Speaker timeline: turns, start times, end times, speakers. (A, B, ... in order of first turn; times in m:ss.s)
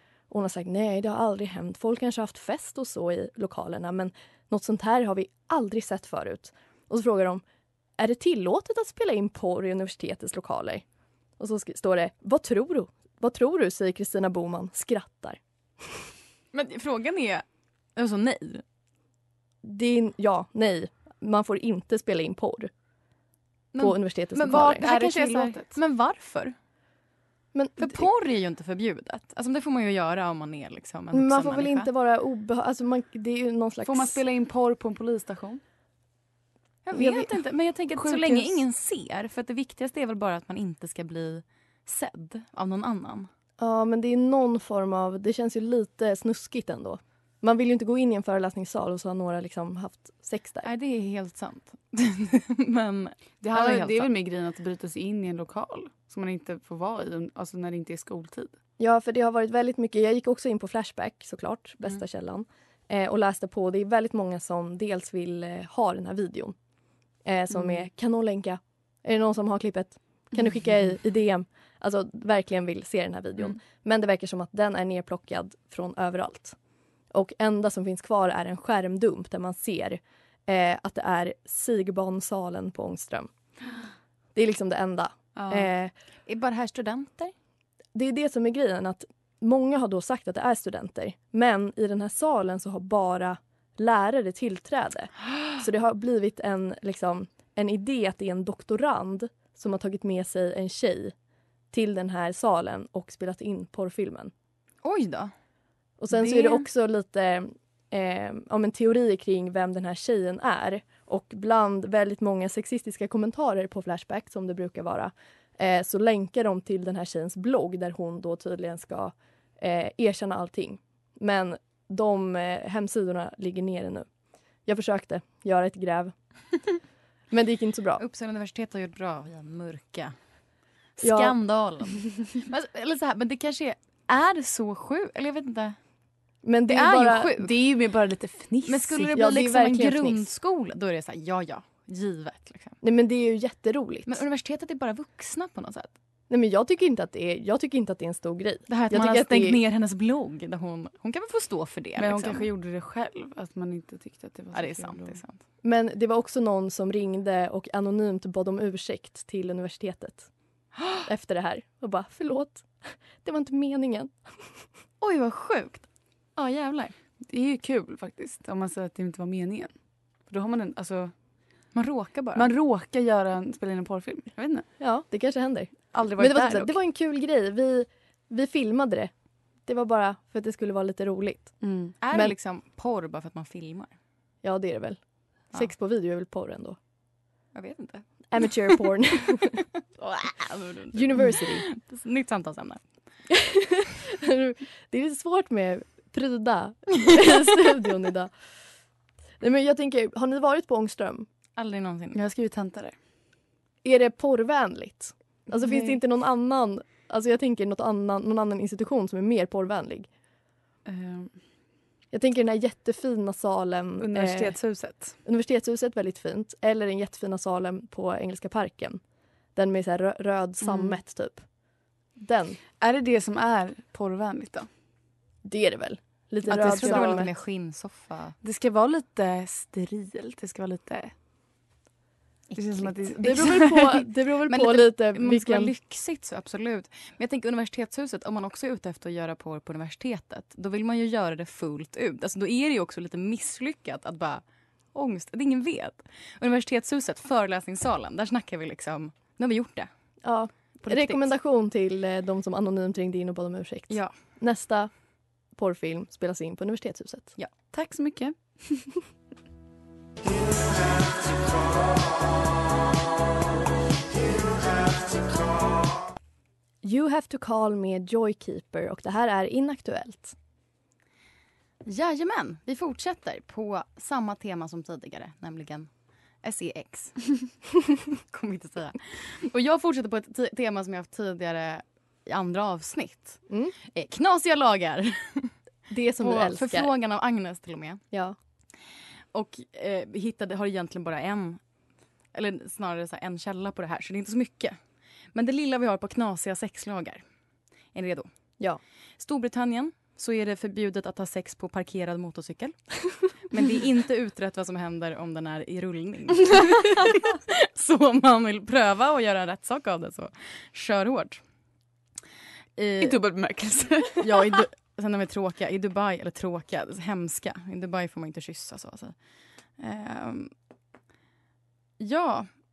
0:00.3-0:07.4 A
0:08.0-0:10.8 A
0:11.4-0:15.4 A
0:16.5-0:17.4 B
0:18.0-0:18.6 B
0:19.6-0:22.7 A
0:23.7-0:26.5 B
0:23.8-0:24.8 A
0:24.5-0:25.8 C
0:27.5-0:28.0 A
0:27.8-0:31.9 B
0:31.1-0:34.2 A
0:33.8-0:35.6 C
0:36.8-0:43.3 B
0:36.9-0:37.3 A
0:38.0-0:38.6 C
0:43.6-0:50.7 A
0:50.6-0:54.1 B
0:53.4-0:58.5 C
0:58.8-1:06.5 A
1:07.2-1:16.6 A
1:07.5-1:07.8 C
1:17.1-1:23.3 A
1:24.3-1:25.9 A
1:25.4-1:25.7 C
1:26.3-1:27.3 B
1:27.9-1:41.1 A
1:41.7-1:44.3 A
1:44.8-1:45.3 B
1:46.0-2:04.1 A
1:46.1-1:46.6 B
2:04.6-2:06.1 A
2:07.3-2:08.0 A
2:08.0-2:10.2 B
2:11.0-2:15.8 B
2:11.0-2:11.4 A
2:16.4-2:17.3 A
2:16.7-2:17.5 B
2:17.3-2:19.1 C
2:18.6-2:22.8 B
2:19.1-2:20.2 A
2:22.8-2:24.2 A
2:24.1-2:25.9 B
2:26.3-2:29.6 A
2:28.7-2:32.5 B
2:32.0-2:35.2 C
2:34.5-2:35.4 B
2:35.6-2:40.3 A
2:41.0-2:42.7 A
2:43.2-2:44.1 A
2:45.0-2:46.9 B
2:47.3-2:49.7 C
2:50.3-2:51.1 C
2:51.7-2:52.5 B
2:52.3-2:54.6 C
2:54.8-2:59.1 A
2:55.9-2:56.8 C
2:59.6-3:02.3 A
3:01.6-3:01.9 C
3:02.0-3:03.9 B
3:04.4-3:05.0 A
3:05.5-3:06.8 A
3:07.5-3:08.3 B
3:08.3-3:09.6 A
3:10.0-3:12.8 B
3:10.9-3:11.6 A
3:13.3-3:18.3 A
3:19.4-3:21.3 A
3:21.6-3:22.2 B
3:22.1-3:22.9 C
3:23.8-3:30.1 A
3:25.6-3:26.0 C
3:30.8-3:31.3 C
3:32.1-3:34.6 A
3:34.0-3:35.2 C
3:35.2-3:39.0 A
3:39.5-3:41.4 A
3:40.6-3:41.0 C
3:42.2-3:42.6 A
3:42.8-3:44.7 C
3:45.4-3:47.3 A
3:46.5-3:47.2 C
3:46.5-3:48.3 B
3:48.4-3:51.1 C
3:52.5-3:53.8 B
3:52.5-3:54.0 C
3:53.2-3:55.7 A
3:54.5-4:04.4 B
4:04.9-4:09.9 B
4:10.2-4:14.9 A
4:10.8-4:11.3 B
4:15.6-4:17.3 A
4:17.7-4:18.9 C
4:26.8-4:30.3 A
4:31.8-4:35.9 B
4:36.4-4:37.3 B
4:38.3-4:45.5 B
4:43.5-4:43.7 A
4:45.9-4:46.9 A
4:46.2-4:48.0 B
4:49.3-4:51.6 B
4:52.3-4:54.8 B
4:55.3-4:57.2 B
4:57.9-4:58.3 B
4:59.2-5:11.4 B
5:12.8-5:13.2 B
5:13.0-5:14.6 C
5:14.2-5:19.1 B
5:19.8-5:20.5 B
5:22.0-5:22.5 B